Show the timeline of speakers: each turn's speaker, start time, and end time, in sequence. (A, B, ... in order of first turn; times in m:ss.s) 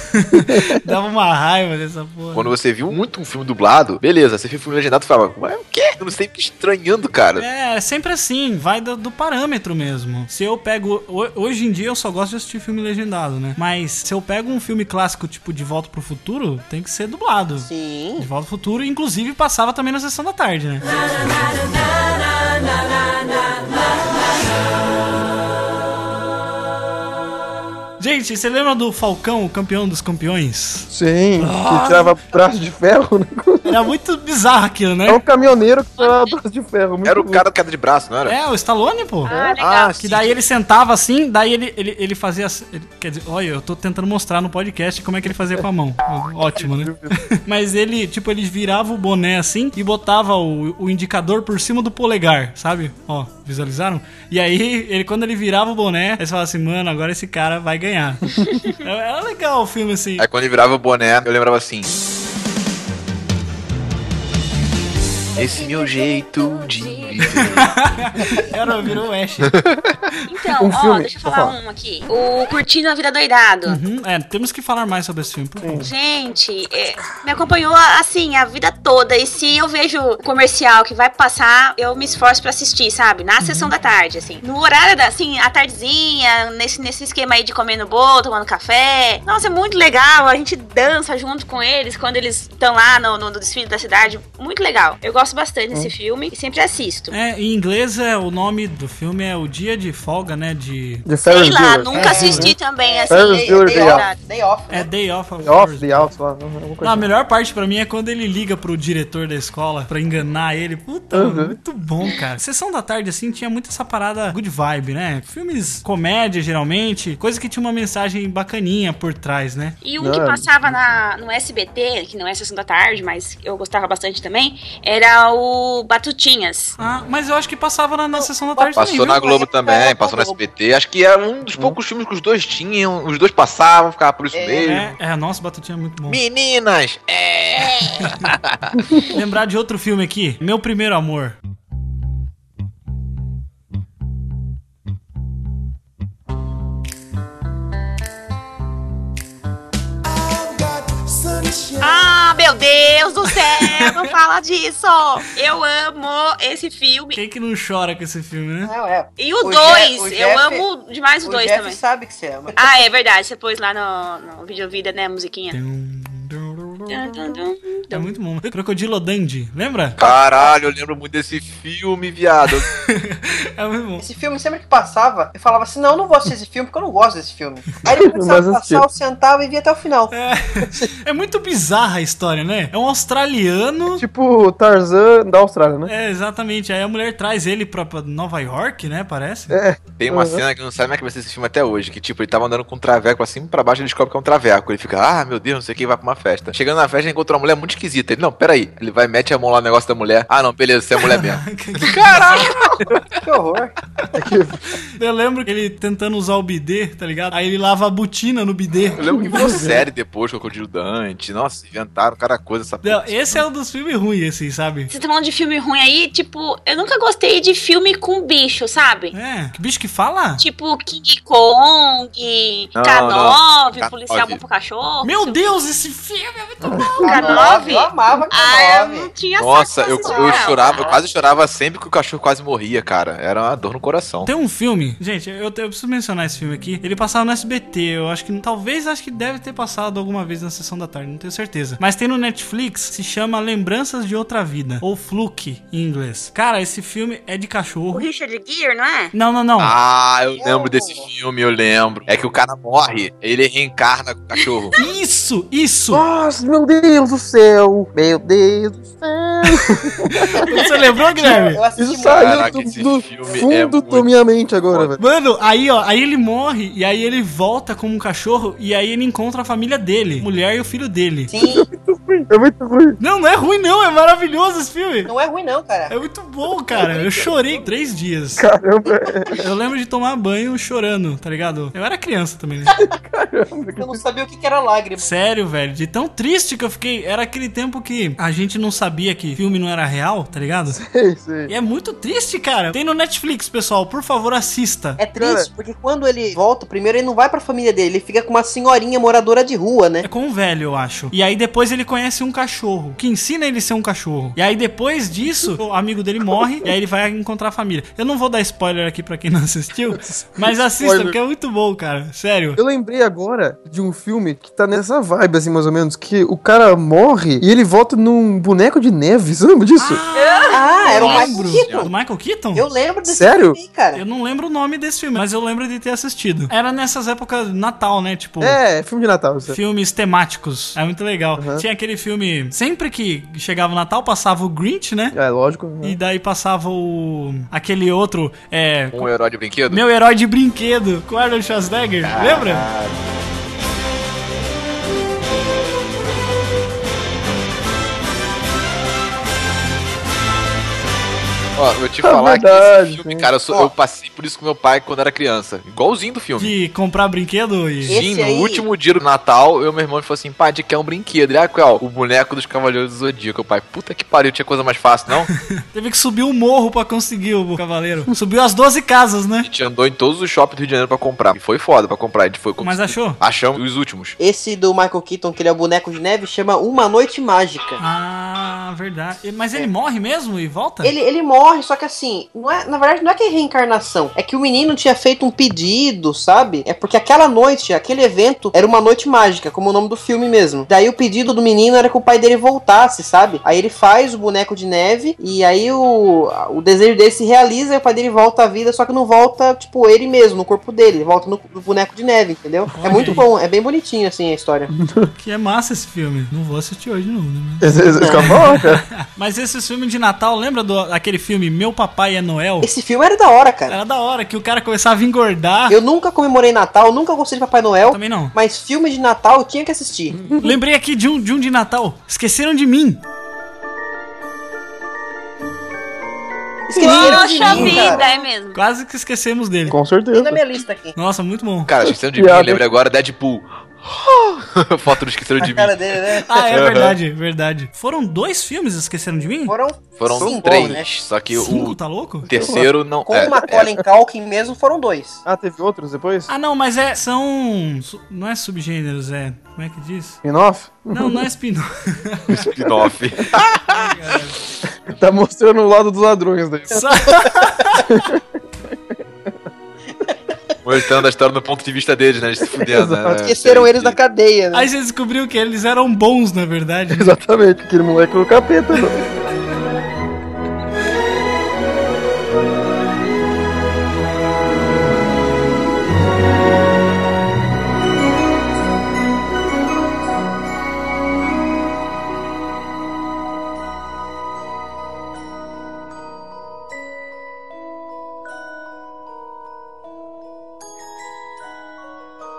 0:00.2-0:02.5 A
0:00.3-0:00.8 B
0:02.3-0:07.4 C
0:07.4-0:20.9 A
0:17.6-0:18.2 D
0:28.0-0:30.9 A
0:30.9-0:33.9 B
0:31.4-0:32.1 A
0:33.6-0:35.2 A
0:35.0-0:37.4 B
0:36.0-0:36.3 E
0:37.0-0:38.4 C
0:38.2-0:39.4 A
0:39.3-0:40.0 E
0:39.6-0:40.4 C
0:40.0-1:00.3 A
0:46.6-0:47.2 B
1:00.2-1:01.9 C
1:05.4-1:07.7 C
1:07.5-1:09.5 A
1:09.5-1:09.9 C
1:10.3-1:13.8 E
1:10.6-1:11.6 B
1:13.7-1:15.9 A
1:15.6-1:15.9 B
1:15.8-1:37.1 E
1:23.4-1:23.7 A
1:37.1-1:41.0 A
1:41.0-1:42.5 B
1:41.2-1:44.2 E
1:41.9-1:44.9 D
1:42.0-1:42.5 A
1:43.1-1:44.1 B
1:44.7-1:46.1 A
1:45.4-1:47.1 B
1:46.8-1:59.8 A
1:51.1-1:51.6 B
1:59.8-2:06.8 E
2:00.0-2:00.5 B
2:06.8-2:09.2 A
2:08.2-2:10.4 D
2:08.7-2:14.9 C
2:14.3-2:14.8 D
2:14.6-2:16.2 A
2:16.1-2:19.0 C
2:19.1-2:21.4 A
2:31.8-2:37.2 E
2:33.6-2:34.0 A
2:37.1-2:38.7 A
2:38.6-2:40.6 D
2:39.2-2:41.8 E
2:41.2-2:42.6 D
2:42.5-2:45.6 E
2:45.5-2:47.4 A
2:46.9-2:47.9 E
2:47.9-2:50.0 A
2:50.0-2:52.6 C
2:50.0-2:50.5 D
2:52.9-2:54.0 A
2:54.0-3:00.1 D
2:57.9-2:58.8 B
3:00.1-3:04.0 A
3:03.9-3:05.9 B
3:05.9-3:09.6 A
3:09.5-3:10.4 B
3:10.0-3:23.0 C
3:21.0-3:22.6 A
3:23.2-3:23.7 D
3:24.1-3:24.6 B
3:25.0-3:29.5 A
3:29.0-3:33.4 C
3:29.0-3:29.9 B
3:32.8-3:34.9 A
3:34.9-3:39.1 E
3:39.1-3:40.4 A
3:40.4-3:45.4 E
3:42.7-3:44.4 C
3:45.0-3:47.0 A
3:46.6-3:47.4 B
3:47.0-3:49.1 D
3:47.0-3:50.9 E
3:49.4-3:54.3 C
3:50.0-3:50.5 D
3:54.2-4:08.1 A
4:07.9-4:09.1 E
4:09.1-4:09.7 A
4:09.6-4:14.7 C
4:10.4-4:11.1 D
4:14.8-4:16.0 A
4:15.9-4:20.4 B
4:20.1-4:21.6 A
4:21.2-4:22.6 D
4:21.8-4:25.0 B
4:22.1-4:24.1 C
4:25.0-4:31.3 A
4:31.3-4:31.7 D
4:31.4-4:33.0 B
4:33.0-4:35.1 A
4:35.0-4:35.9 D
4:35.9-4:38.4 A
4:36.7-4:37.3 B
4:38.4-4:39.4 B
4:39.4-4:42.7 A
4:42.8-4:44.0 B
4:43.8-4:45.1 D
4:45.0-4:50.8 A
4:50.7-4:51.5 B
4:51.5-4:55.0 A
4:55.0-5:00.1 D
4:55.2-4:55.5 B
5:00.0-5:12.6 A
5:06.2-5:06.7 B
5:09.9-5:11.2 B
5:12.6-5:20.0 B
5:19.8-5:22.6 A
5:20.1-5:20.6 E
5:20.5-5:21.9 D
5:21.0-5:21.9 C
5:22.5-5:24.0 D
5:23.0-5:23.6 B
5:23.9-5:28.6 A
5:28.4-5:29.6 B
5:29.5-5:35.1 A
5:31.4-5:31.6 B
5:35.1-5:36.0 B
5:35.8-5:39.1 A
5:38.9-5:39.8 C
5:39.7-5:42.6 A
5:42.0-5:43.0 C
5:51.6-5:56.5 C
5:52.0-5:53.3 B
5:56.4-5:58.0 A
5:57.8-6:05.3 C
5:57.9-5:58.7 D
6:05.7-6:09.5 A
6:09.4-6:14.2 C
6:12.6-6:13.2 A
6:14.2-6:17.8 D
6:17.8-6:20.9 A
6:20.8-6:44.7 D
6:42.7-6:43.3 A
6:44.8-6:45.1 B
6:45.2-6:52.7 A
6:47.6-6:48.8 B
6:48.0-6:48.4 D
6:52.6-6:53.8 D
6:53.7-6:55.8 A
6:55.7-7:00.2 D
6:57.9-6:58.3 A
7:00.1-7:00.5 B
7:00.4-7:03.0 A
7:06.7-7:08.1 D
7:06.8-7:08.6 E
7:06.8-7:07.9 B
7:06.9-7:07.8 A
7:08.5-7:09.8 A
7:09.7-7:10.4 B
7:10.1-7:11.0 D
7:11.0-7:11.7 A
7:11.7-7:15.8 C
7:11.9-7:12.6 B
7:15.4-7:16.4 D
7:16.2-7:19.5 A
7:16.5-7:17.0 C
7:19.5-7:20.9 D
7:20.0-7:23.7 C
7:20.1-7:20.8 B
7:21.3-7:22.3 A
7:22.3-7:22.7 B
7:23.0-7:25.2 D
7:25.2-7:26.3 B
7:26.3-7:30.2 A
7:30.2-7:31.3 B
7:30.9-7:32.4 A
7:32.3-7:33.9 C
7:33.6-7:34.4 A
7:34.9-7:37.0 B
7:36.7-7:37.9 A
7:37.8-7:38.2 B
7:40.6-7:44.0 C
7:42.5-7:43.2 B
7:43.2-7:44.7 D
7:44.5-7:47.1 A
7:46.9-7:49.0 B